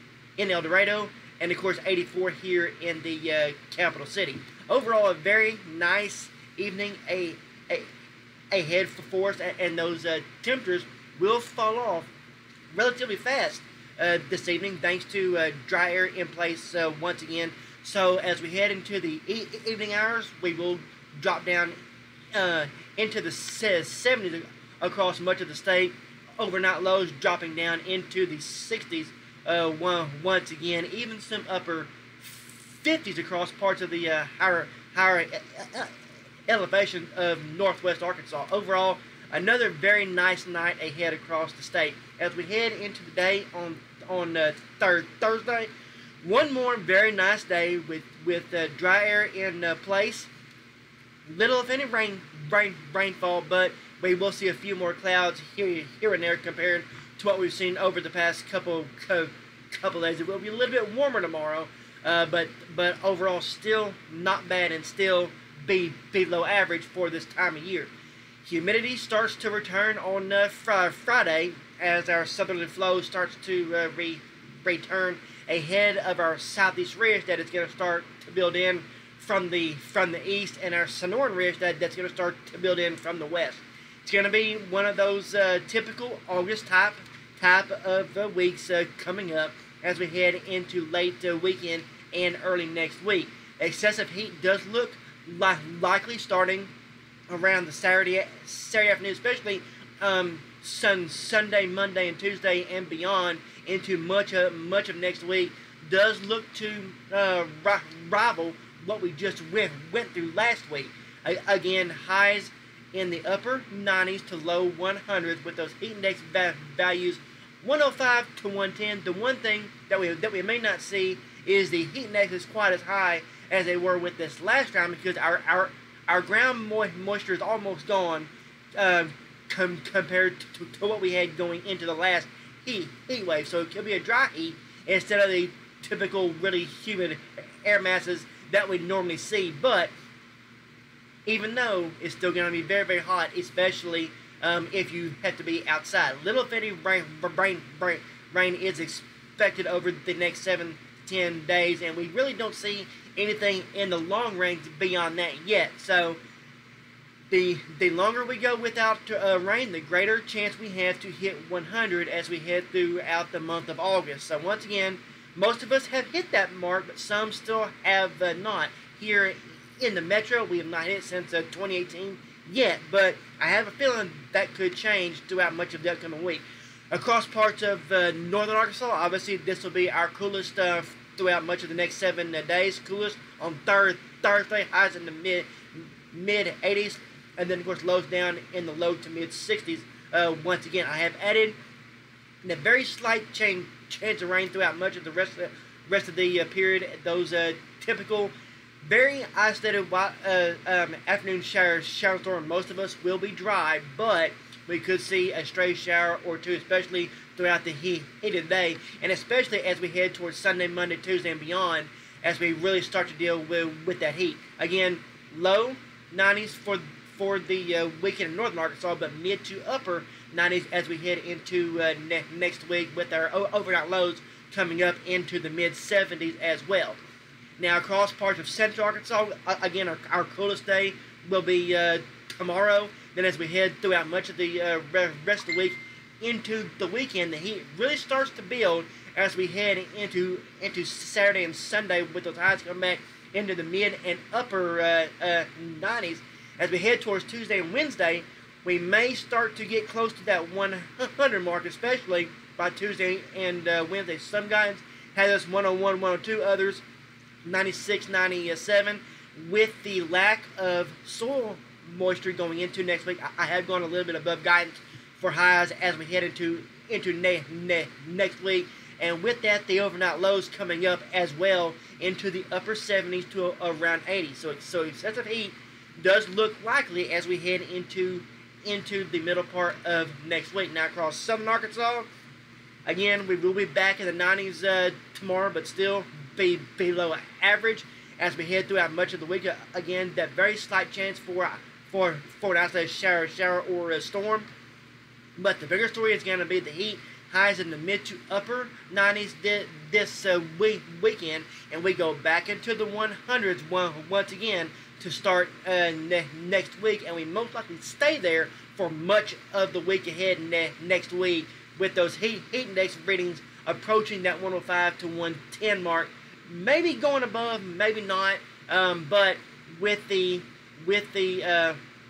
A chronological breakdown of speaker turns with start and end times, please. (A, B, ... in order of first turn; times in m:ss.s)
0:00.4-0:07.9 A
0:08.5-0:12.1 A
0:12.7-0:21.8 A
0:22.3-0:35.9 A
0:36.5-0:45.7 A
0:46.2-0:50.3 A
0:51.2-1:07.9 A
1:08.4-1:36.7 A
1:37.3-2:19.9 A
2:21.2-2:36.2 A
2:37.3-3:11.6 A
3:12.4-3:18.3 A
3:18.8-3:47.0 A
3:47.6-4:16.8 A
4:17.4-4:42.1 A
4:42.8-4:54.5 A
4:55.4-5:21.8 A